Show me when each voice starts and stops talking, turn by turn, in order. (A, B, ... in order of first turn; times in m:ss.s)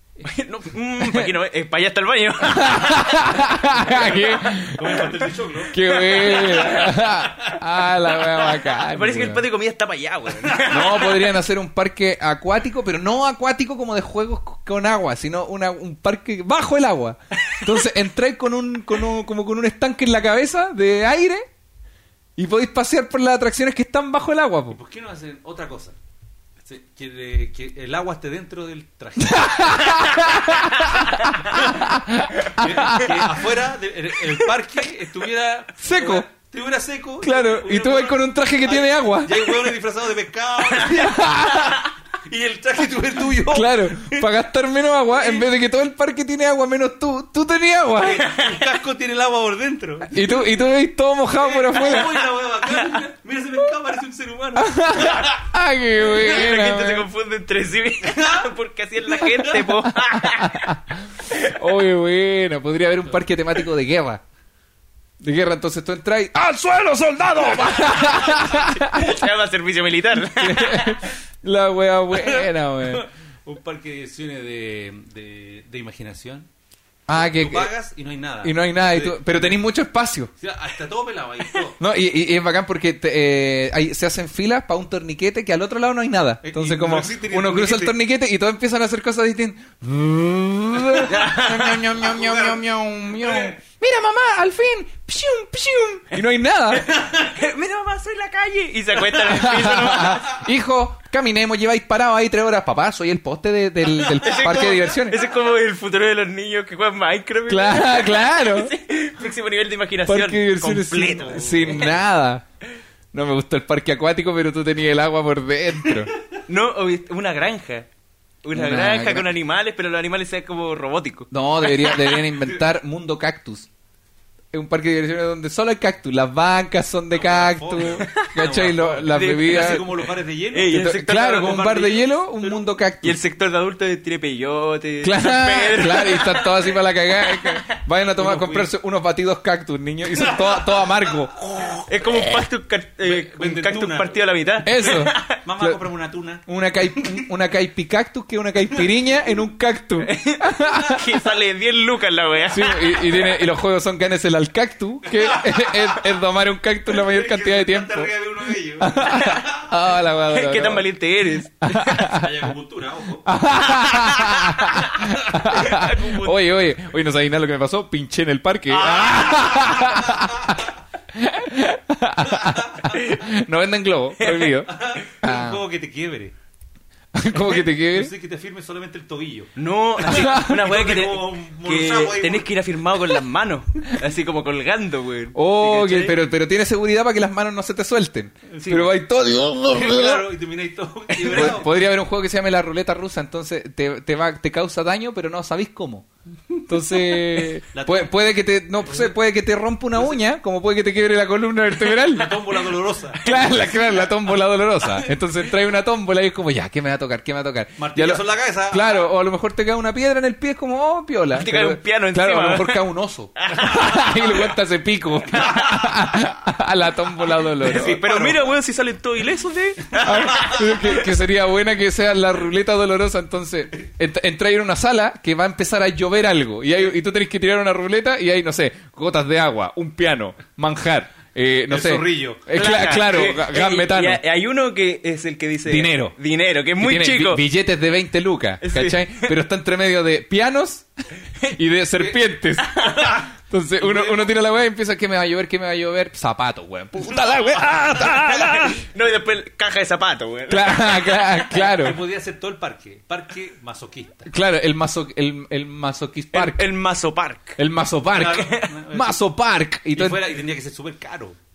0:00.2-0:03.3 A
0:01.0-0:01.3 B
0:02.4-0:09.4 B
0:03.8-0:07.6 C
0:05.9-0:06.8 A
0:08.7-0:11.1 A
0:10.4-0:11.1 C
0:10.7-0:21.5 B
0:22.4-0:24.8 B
0:24.7-0:26.0 C
0:26.6-0:30.6 C
0:29.2-0:33.4 B
0:31.5-0:31.9 C
0:32.5-0:44.3 C
0:35.8-0:36.3 B
0:37.2-0:39.6 B
0:40.9-0:41.8 B
0:43.5-0:48.2 B
0:45.2-0:45.5 C
0:48.0-0:50.4 C
0:50.1-0:52.2 B
0:51.4-0:55.4 C
0:54.6-0:57.1 B
0:56.0-1:00.8 A
0:58.0-0:58.5 C
0:59.3-0:59.6 C
1:00.0-1:00.8 B
1:01.4-1:04.2 B
1:05.2-1:09.2 B
1:07.7-1:08.2 C
1:07.8-1:11.0 A
1:10.3-1:13.1 B
1:12.9-1:16.5 C
1:17.1-1:17.7 B
1:17.1-1:19.5 C
1:18.4-1:20.3 B
1:20.4-1:21.8 C
1:21.8-1:36.9 B
1:26.4-1:28.0 C
1:31.1-1:32.6 C
1:37.0-1:40.4 A
1:39.2-1:45.2 B
1:44.2-1:51.9 A
1:47.5-1:48.7 B
1:50.1-1:52.4 B
1:51.4-1:51.9 C
1:53.1-1:56.1 B
1:56.5-1:57.9 A
1:58.4-2:01.3 A
1:58.5-1:59.3 B
2:01.3-2:03.7 B
2:04.5-2:09.9 B
2:07.1-2:12.7 C
2:09.1-2:09.9 A
2:10.5-2:11.8 A
2:10.7-2:13.2 B
2:13.0-2:16.7 A
2:15.0-2:21.3 B
2:18.2-2:18.7 C
2:20.2-2:22.4 C
2:21.9-2:25.4 A
2:23.0-2:24.2 C
2:24.6-2:25.8 B
2:24.8-2:27.3 C
2:26.4-2:31.0 B
2:30.0-2:33.2 A
2:32.5-2:38.1 B
2:35.1-2:36.1 C
2:36.9-2:39.7 C
2:38.8-2:40.9 B
2:39.1-2:39.4 A
2:40.3-2:42.1 A
2:41.6-2:42.3 B
2:42.0-2:43.3 C
2:43.3-2:55.6 B
2:43.8-2:46.4 A
2:48.7-2:50.6 C
2:52.3-2:52.9 C
2:53.0-2:53.2 A
2:54.2-2:54.5 A
2:54.7-2:56.3 C
2:57.1-2:58.1 B
2:57.3-3:02.5 C
2:59.6-3:06.1 A
3:00.1-3:00.5 B
3:05.4-3:10.2 B
3:08.5-3:08.9 C
3:09.7-3:11.8 C
3:11.3-3:16.1 B
3:16.7-3:22.5 B
3:17.7-3:18.3 C
3:18.8-3:19.2 C
3:20.0-3:20.2 C
3:22.0-3:23.2 C
3:23.2-3:38.0 B
3:23.2-3:23.7 A
3:27.8-3:29.1 C
3:31.4-3:32.8 A
3:33.4-3:34.0 A
3:33.6-3:34.3 C
3:35.4-3:35.8 A
3:37.6-3:40.6 A
3:37.7-3:38.5 C
3:40.0-3:54.2 B
3:51.7-3:53.3 C
3:52.5-3:57.4 A
3:55.7-3:56.2 B
3:56.8-4:00.9 B
3:58.6-3:59.3 A
4:01.5-4:08.8 B
4:02.8-4:03.2 A
4:03.8-4:04.3 C
4:07.6-4:08.7 C
4:08.8-4:11.3 A
4:10.5-4:12.0 B
4:11.5-4:14.3 C
4:14.3-4:16.7 B
4:16.3-4:17.6 A
4:17.6-4:20.2 B
4:18.1-4:19.2 C
4:18.3-4:18.7 A
4:19.9-4:21.4 C